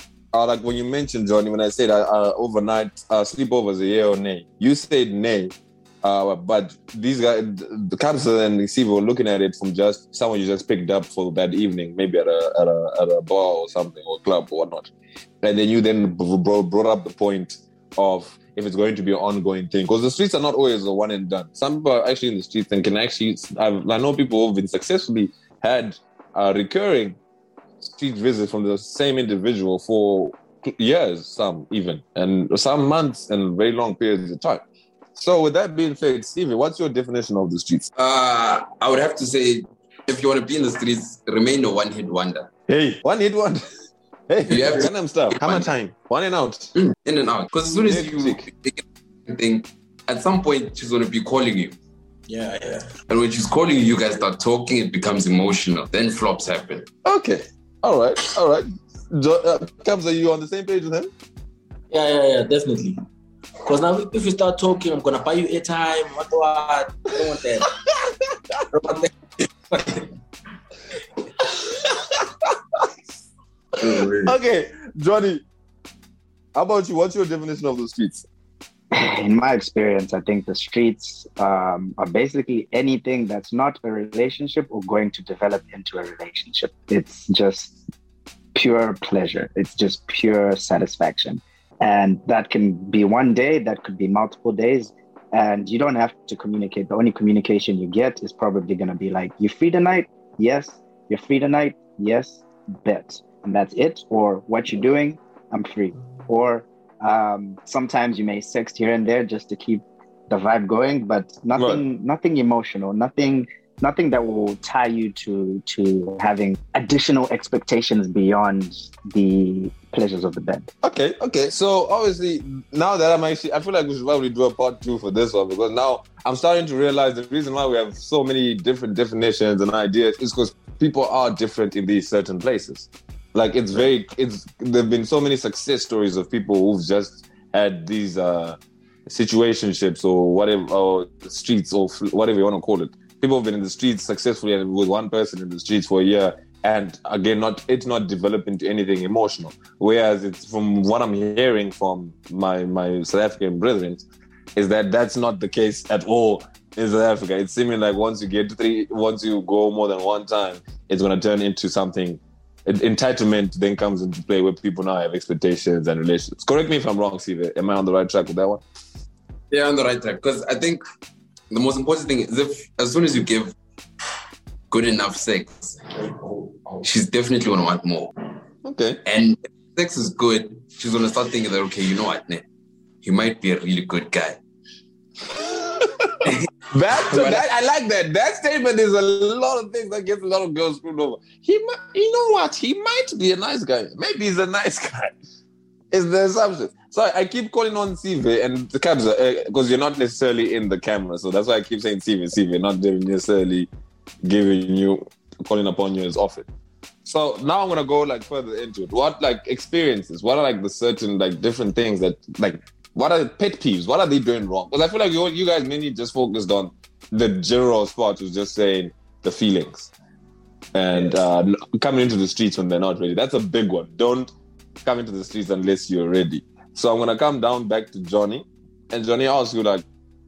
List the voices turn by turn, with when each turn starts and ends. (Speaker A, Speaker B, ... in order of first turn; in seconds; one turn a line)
Speaker A: 0.3-14.9
Speaker A: 15.4-27.2
Speaker A: 27.8-37.9
Speaker B: 38.0-42.5
Speaker A: 42.7-43.6
Speaker A: 44.3-46.7
Speaker B: 44.5-45.7
Speaker B: 46.8-51.8
Speaker A: 47.8-48.5
Speaker C: 52.3-52.9
Speaker B: 53.1-56.9
Speaker A: 57.0-61.1
Speaker C: 61.9-63.0
Speaker C: 63.6-67.7
Speaker A: 67.8-68.6
Speaker C: 68.7-70.1
Speaker A: 71.4-72.8
Speaker B: 73.8-74.3
Speaker A: 74.2-75.4
Speaker A: 76.5-78.3
Speaker D: 78.9-87.8
Speaker D: 88.5-120.7
Speaker A: 111.6-111.8
Speaker A: 120.8-154.1
Speaker A: 154.6-168.6
Speaker B: 169.5-170.8
Speaker B: 171.5-173.6
Speaker B: 174.7-178.1
Speaker A: 178.6-179.0
Speaker B: 179.0-182.4
Speaker B: 183.0-184.4
Speaker A: 185.3-195.2
Speaker B: 187.1-187.4
Speaker A: 195.9-203.7
Speaker A: 204.2-206.5
Speaker A: 207.0-219.9
Speaker A: 220.7-224.3
Speaker A: 224.8-229.8